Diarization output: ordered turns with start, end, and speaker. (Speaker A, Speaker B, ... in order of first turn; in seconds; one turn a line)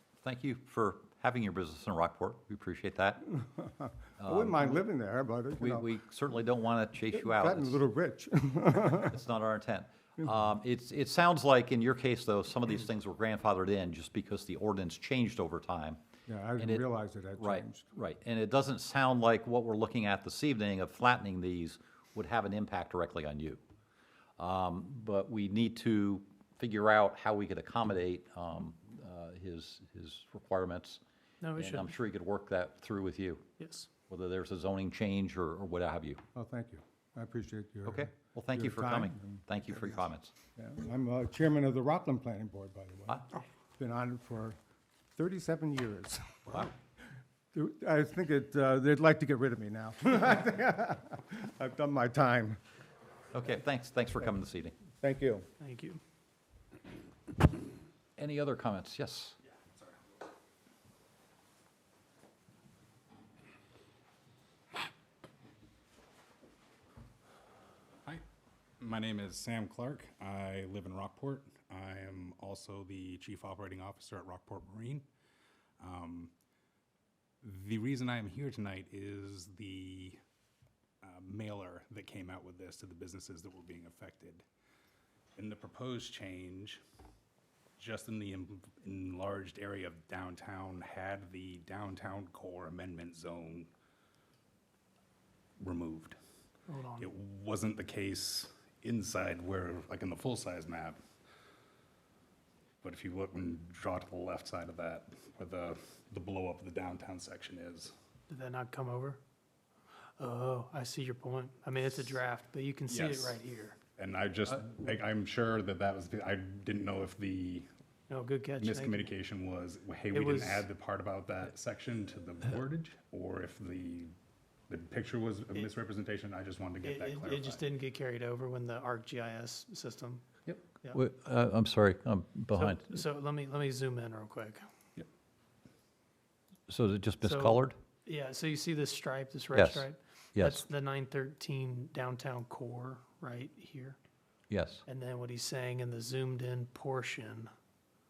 Speaker A: 0.2-3.3
Speaker B: 3.3-5.9
Speaker A: 4.2-4.8
Speaker A: 5.6-7.8
Speaker B: 7.1-9.2
Speaker A: 8.9-16.0
Speaker B: 16.3-17.9
Speaker A: 16.6-16.8
Speaker A: 17.4-23.6
Speaker A: 24.4-31.0
Speaker C: 31.4-31.9
Speaker A: 31.6-33.5
Speaker C: 33.6-33.9
Speaker A: 34.1-36.2
Speaker B: 36.3-44.6
Speaker A: 37.8-40.3
Speaker B: 45.1-46.7
Speaker B: 47.5-52.6
Speaker A: 53.3-54.7
Speaker B: 55.0-55.5
Speaker C: 55.6-56.0
Speaker A: 58.2-59.4
Speaker D: 68.8-75.1
Speaker D: 75.8-76.3
Speaker D: 77.4-80.2
Speaker D: 81.0-84.5
Speaker D: 85.3-86.8
Speaker D: 87.8-93.7
Speaker D: 95.6-96.2
Speaker C: 96.7-97.1
Speaker D: 97.0-101.0
Speaker D: 102.8-107.9
Speaker C: 108.3-109.2
Speaker C: 110.2-113.8
Speaker D: 112.9-113.4
Speaker D: 114.0-117.7
Speaker C: 118.1-119.1
Speaker D: 118.6-124.1
Speaker C: 120.1-120.7
Speaker D: 124.7-127.7
Speaker C: 126.8-130.2
Speaker A: 130.9-133.0
Speaker C: 132.5-134.6
Speaker A: 136.7-137.8
Speaker C: 137.2-144.0
Speaker A: 139.5-140.7
Speaker A: 144.5-144.8
Speaker C: 144.9-147.5